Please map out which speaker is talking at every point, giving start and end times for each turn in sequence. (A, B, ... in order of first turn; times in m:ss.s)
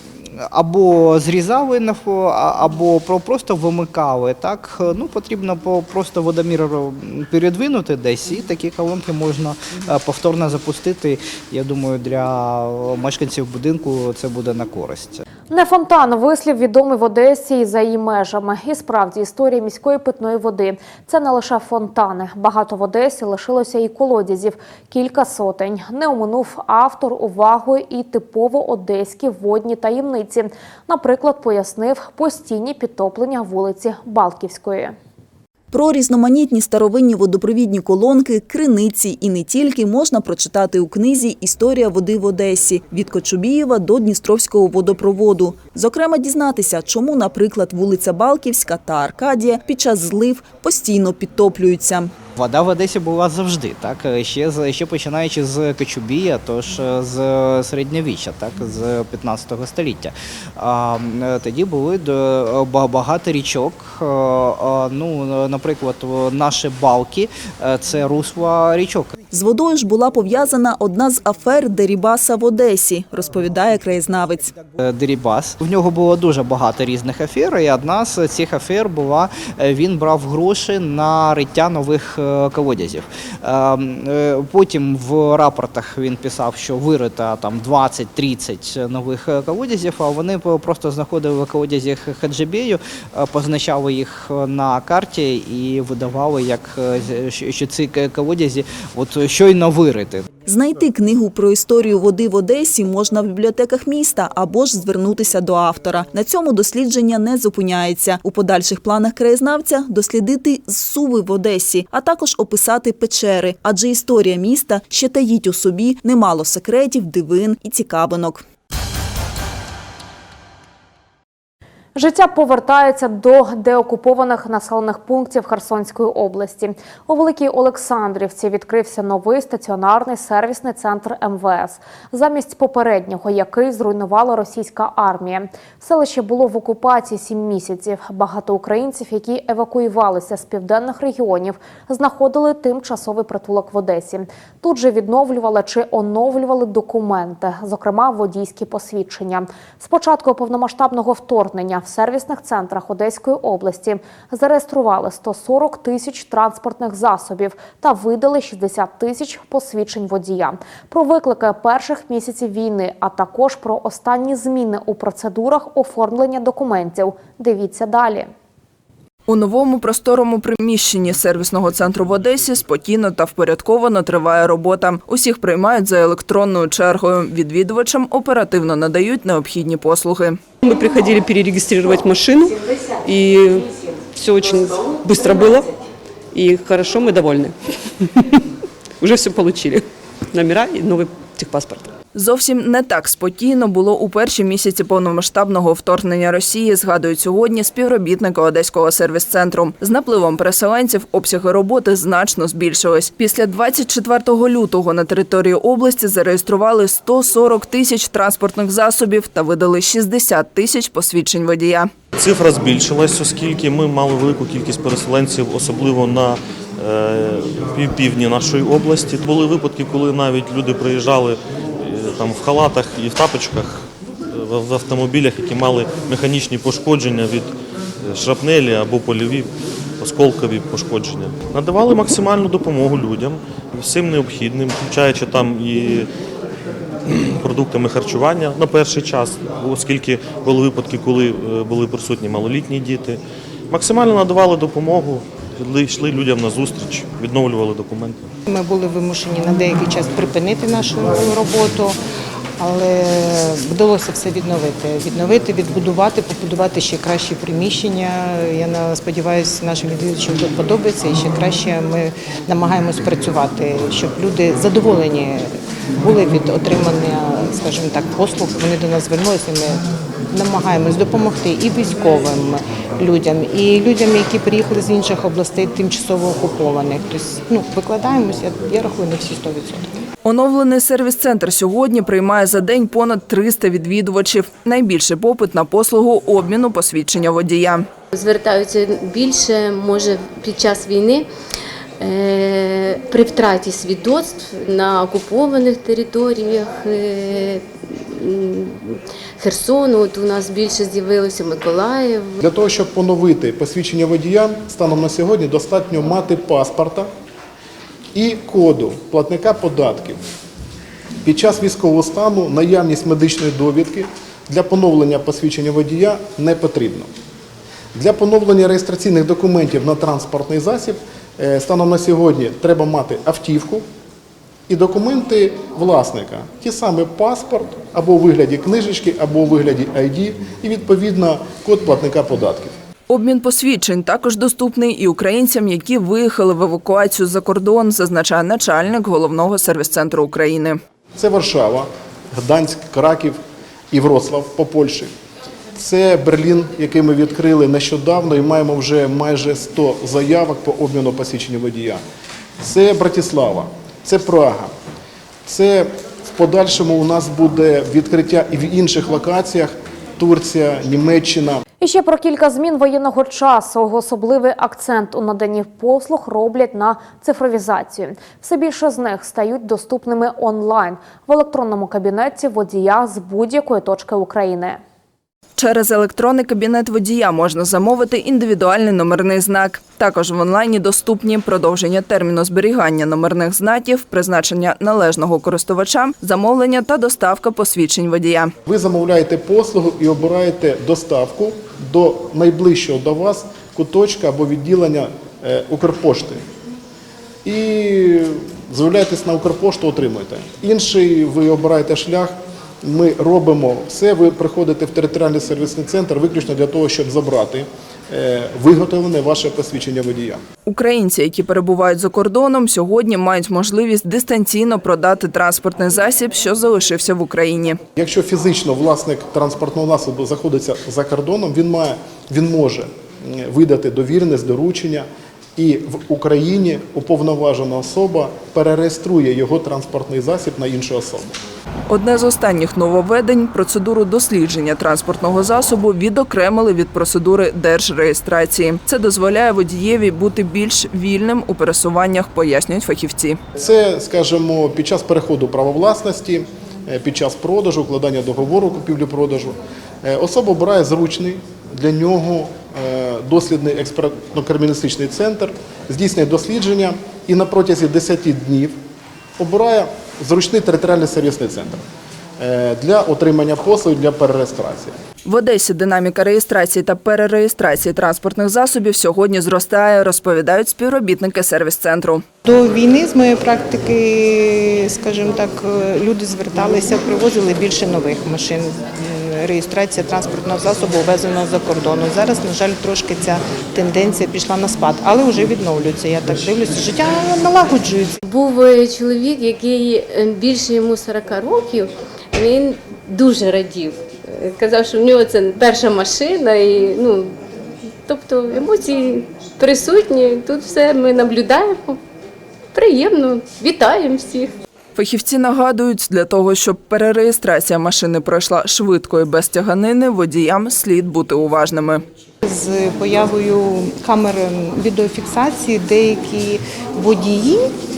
0:00.4-0:15.2 A
0:15.5-0:34.9 B
0:35.7-0:52.1 C
0:52.4-1:09.2 A
1:09.3-1:14.5 C
1:14.8-1:40.3 A
1:40.4-1:58.4 C
2:01.9-2:48.3 B
2:49.3-3:00.4 D
3:00.6-3:02.5 E
3:03.1-3:03.6 E
3:05.1-3:05.5 E
3:06.4-3:07.5 E
3:09.0-3:09.8 E
3:10.3-3:11.8 E
3:12.1-3:31.9 D
3:32.2-3:56.1 F
3:57.0-4:08.3 F
4:08.4-4:12.0 G
4:12.6-4:39.9 G
4:40.2-4:47.8 D
4:48.1-4:51.3 H
4:52.0-5:02.4 H
5:02.4-5:07.1 I
5:08.1-5:10.2 I
5:11.2-5:17.1 I
5:17.9-5:23.8 I
5:24.7-5:32.7 I
5:33.1-5:40.8 D
5:41.1-5:43.4 I
5:43.9-5:45.1 I
5:45.7-5:52.0 I
5:52.6-5:54.7 I
5:55.4-6:01.6 I
6:01.8-6:14.8 B
6:15.6-6:28.5 D
6:28.6-6:36.4 I
6:37.4-6:50.4 I
6:50.6-6:57.8 D
6:58.0-7:11.3 I
7:11.9-7:23.4 D
7:23.6-7:38.8 I
7:39.4-7:41.8 I
7:42.4-7:44.9 I
7:45.2-7:52.2 D
7:52.4-8:08.2 G
8:08.2-8:17.4 H
8:18.0-8:22.0 H
8:22.7-8:24.5 H
8:25.0-8:32.0 D
8:32.4-8:37.7 G